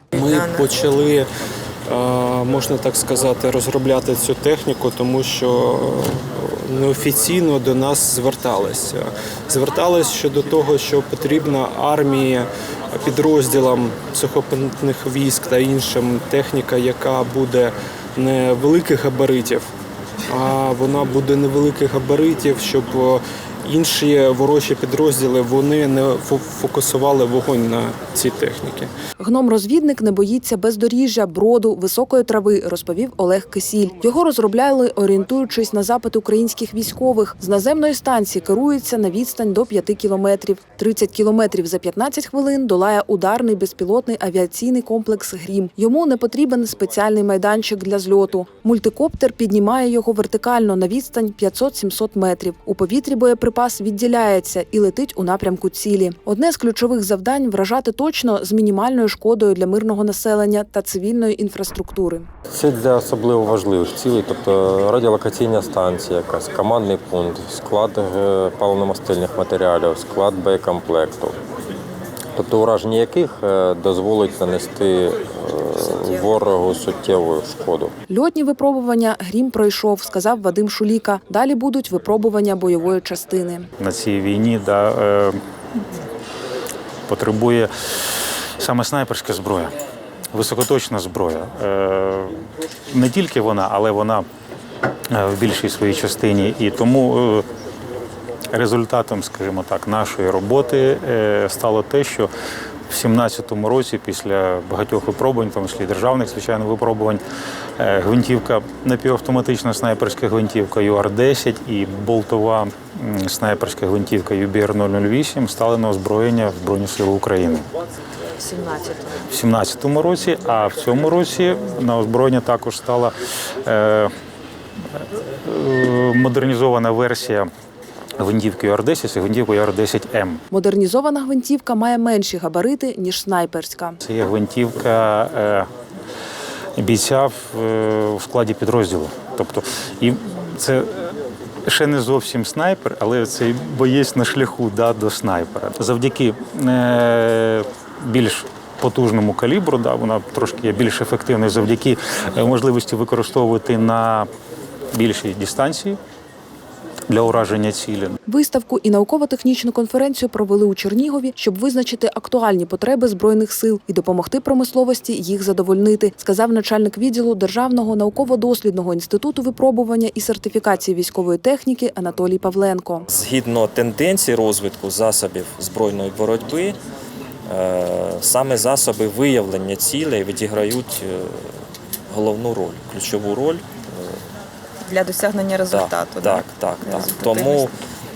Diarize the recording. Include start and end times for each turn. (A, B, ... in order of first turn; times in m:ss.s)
0:00.1-0:01.3 A
0:01.9-0:19.7 A
0:20.3-0:28.9 A
0:29.2-1:02.3 B
1:02.5-1:11.4 C
1:12.4-1:17.9 C
1:18.1-1:23.7 B
1:23.8-1:25.4 D
1:27.1-1:29.8 D
1:30.3-1:34.3 D
1:35.1-1:37.5 D
1:38.5-1:42.3 D
1:42.9-1:47.2 D
1:47.8-1:57.7 D
1:58.4-1:59.1 E
1:59.3-2:04.1 D
2:04.9-2:07.5 D
2:08.2-2:10.4 D
2:10.5-2:14.0 B
2:14.0-2:15.7 D
2:16.8-2:21.1 D
2:21.7-2:34.3 D
2:34.9-2:36.0 D
2:37.1-2:38.2 D
2:38.3-2:53.1 B
2:53.1-2:56.8 F
2:57.5-3:01.5 F
3:02.1-3:04.2 F
3:04.9-3:06.3 E
3:05.7-3:07.7 F
3:06.9-3:07.5 E